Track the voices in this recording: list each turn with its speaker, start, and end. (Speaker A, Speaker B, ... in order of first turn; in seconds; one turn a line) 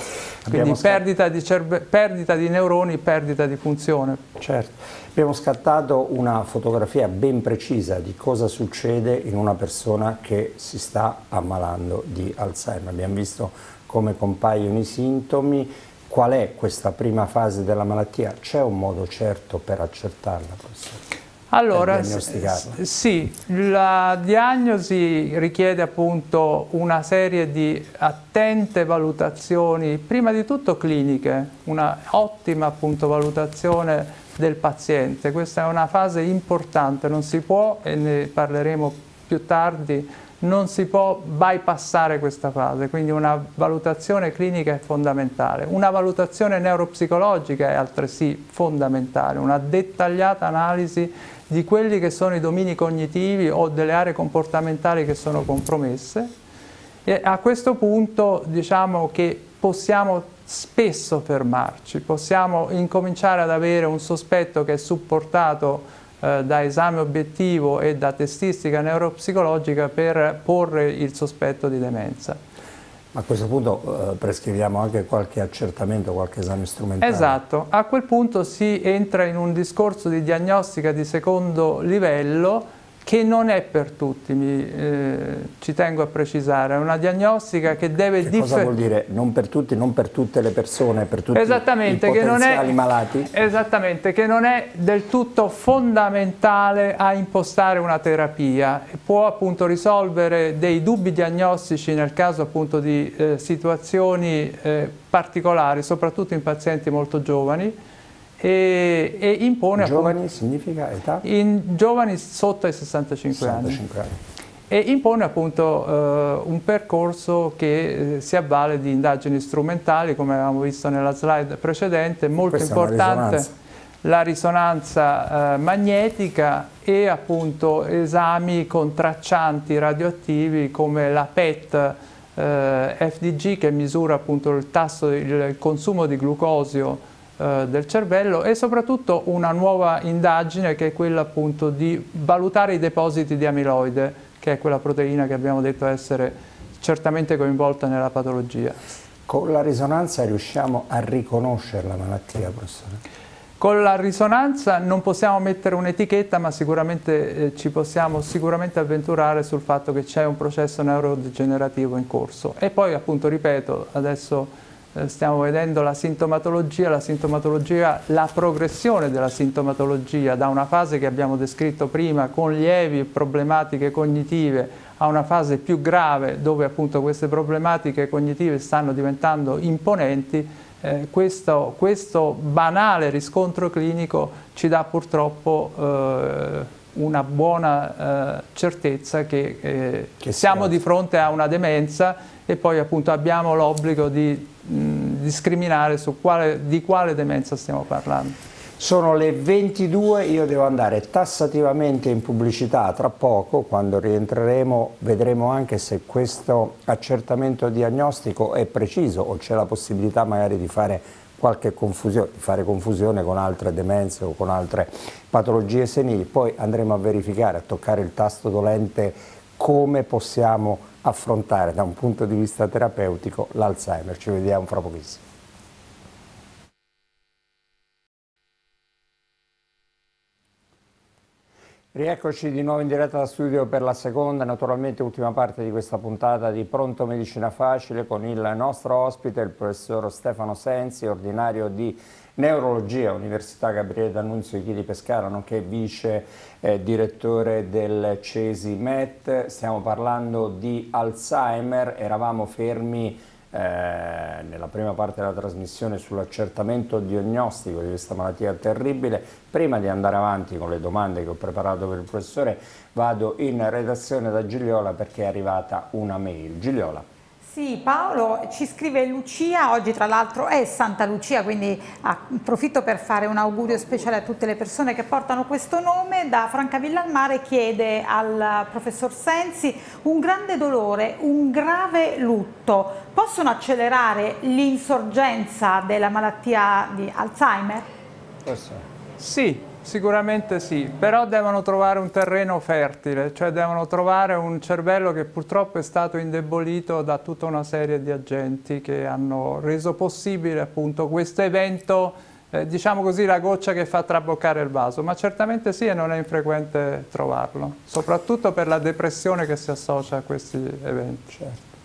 Speaker A: 0.4-1.0
Speaker B: 0.5-4.2
Speaker A: 4.4-21.0
Speaker B: 21.5-56.3
Speaker A: 21.7-22.8
Speaker B: 57.1-72.4
Speaker A: 73.1-77.4
Speaker B: 77.0-88.7
Speaker A: 88.2-93.3
Speaker B: 91.3-92.8
Speaker B: 93.3-107.8
Speaker B: 108.4-110.1
Speaker A: 109.8-111.2
Speaker B: 111.2-113.8
Speaker A: 113.3-114.1
Speaker B: 114.7-123.5
Speaker A: 122.5-123.5
Speaker B: 124.0-148.8
Speaker A: 149.3-153.0
Speaker B: 153.6-198.4
Speaker A: 190.2-190.7
Speaker A: 198.8-225.2
Speaker A: 231.9-267.0
Speaker C: 267.4-287.9
Speaker A: 288.4-288.9
Speaker B: 289.2-311.3
Speaker A: 311.3-311.6